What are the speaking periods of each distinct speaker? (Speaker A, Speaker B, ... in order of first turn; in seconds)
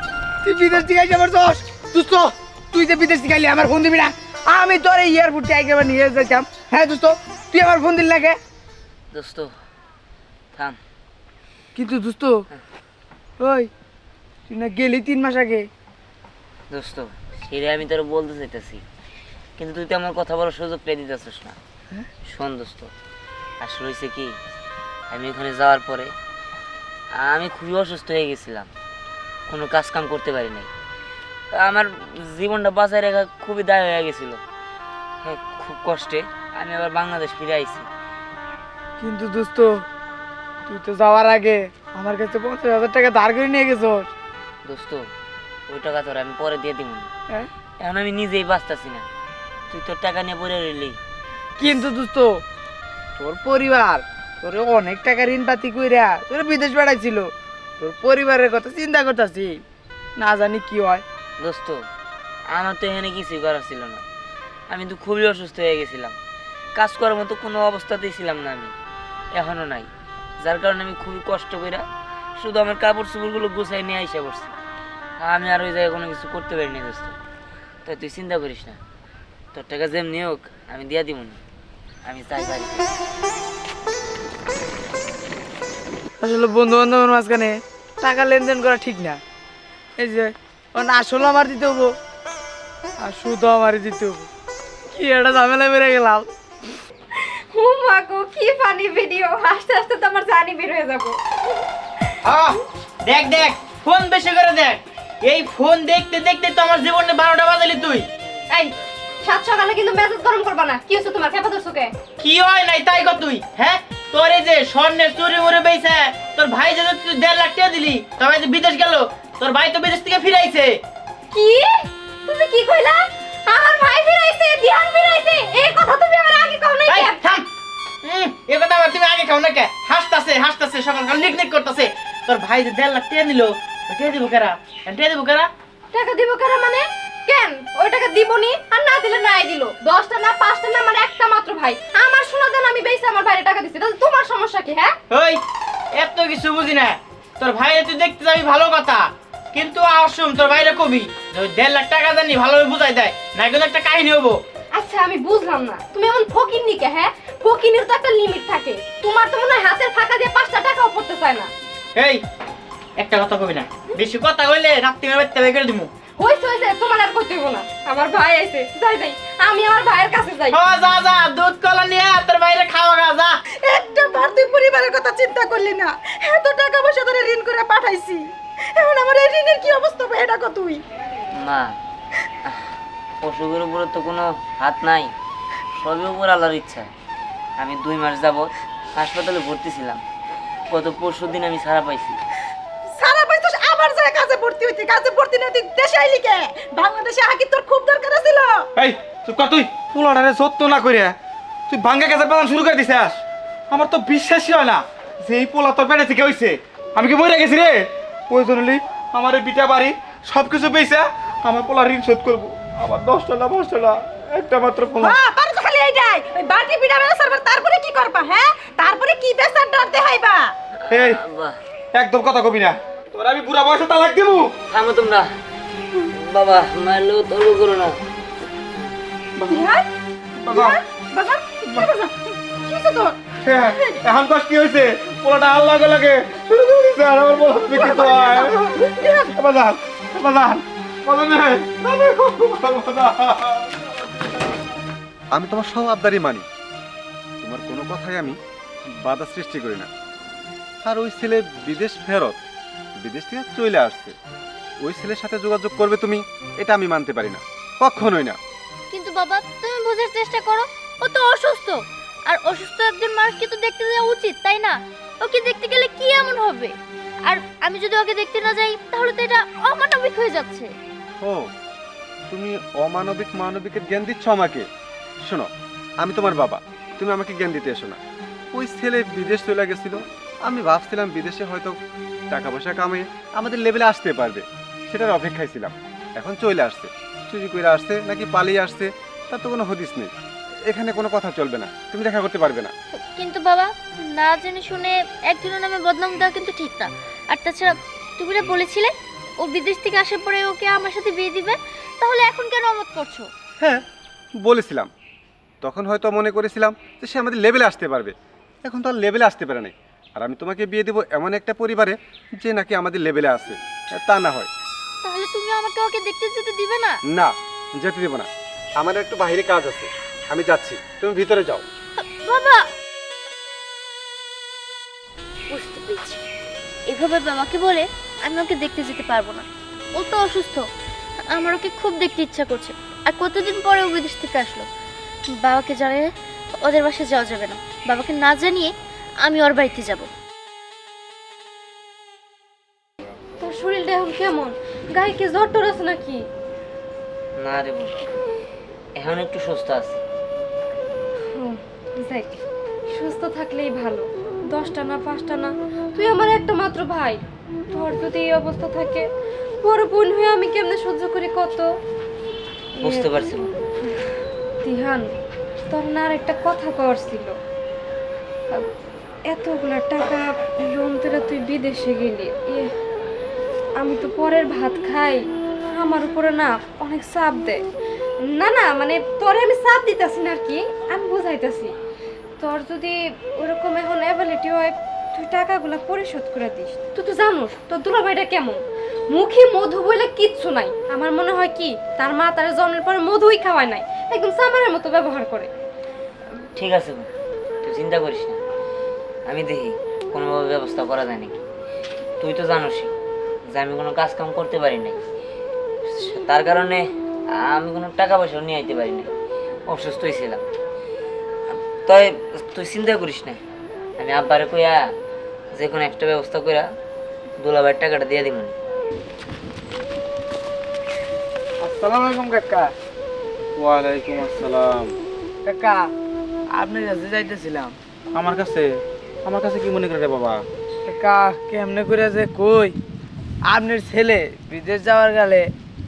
Speaker A: 0.4-8.4, 11.7-12.3, 13.4-13.7, 14.5-15.7, 39.0-39.8, 40.7-44.1, 51.6-52.4, 53.2-59.6, 60.2-61.0, 86.2-89.2, 90.0-91.9, 93.0-94.3, 94.9-96.3, 421.6-422.7, 425.4-425.8, 426.5-427.7, 430.9-432.8, 433.4-435.5
Speaker B: 9.1-9.5, 10.5-10.8, 16.7-18.8, 19.6-21.6, 22.2-22.9, 23.6-24.4, 25.1-26.1, 27.1-28.7, 29.5-30.7, 31.5-34.4, 35.2-37.9, 44.6-45.0, 45.7-47.1, 47.8-49.1, 49.7-51.0, 61.4-61.8, 62.5-64.0, 64.7-66.2, 66.7-68.7, 69.3-69.9, 70.4-71.8, 72.4-74.5, 75.2-77.1, 77.8-78.8, 79.5-81.4, 82.0-82.9, 181.3-181.8, 183.2-185.1, 185.7-186.9, 187.6-190.0, 190.7-192.2, 220.9-221.6, 224.7-225.3, 226.1-227.9, 347.4-348.0, 349.0-350.0, 362.8-363.5, 396.6-397.1, 397.6-398.4, 399.3-401.4, 402.2-402.9, 403.5-405.0, 405.9-409.1, 409.7-410.4, 411.5-413.4, 414.0-414.9, 415.5-416.7, 417.4-418.5
Speaker C: 97.5-101.1, 109.2-111.9, 121.3-127.2, 135.9-144.9, 154.7-161.5, 166.2-170.6, 343.4-346.2, 351.4-352.4, 352.9-357.2, 357.7-359.0, 359.6-361.6, 364.6-365.1, 365.7-367.4, 369.3-372.7, 373.8-375.2, 375.8-377.6, 378.3-381.7, 382.4-388.6, 389.1-395.5
Speaker D: 102.2-102.5, 103.0-108.1, 112.2-120.8, 126.9-127.4, 128.1-135.5, 145.1-145.4, 146.0-154.4, 161.9-162.2, 163.0-165.9, 170.5-173.3
Speaker E: 173.6-180.8, 192.9-198.7, 215.0-220.5, 229.5-229.8, 230.5-233.9, 237.7-239.3
Speaker F: 198.8-201.2, 201.7-215.2, 220.9-221.2, 221.9-224.5, 229.4-229.7, 230.4-230.8, 233.4-243.7, 423.6-424.9, 428.1-430.4
Speaker G: 245.3-246.4, 247.4-248.4, 249.0-249.9, 250.8-252.4, 253.0-254.1, 254.8-258.4, 271.2-271.4, 272.3-274.7, 275.2-278.0, 278.5-281.8, 282.3-290.1, 290.7-292.7, 304.4-304.9, 305.6-308.1, 308.6-314.5, 317.1-321.6
Speaker H: 258.9-266.7, 267.2-270.7, 293.1-303.3, 315.0-317.0, 322.1-322.6, 325.5-326.2, 326.9-330.6, 331.3-334.6, 335.4-336.1, 336.6-338.7, 339.2-340.1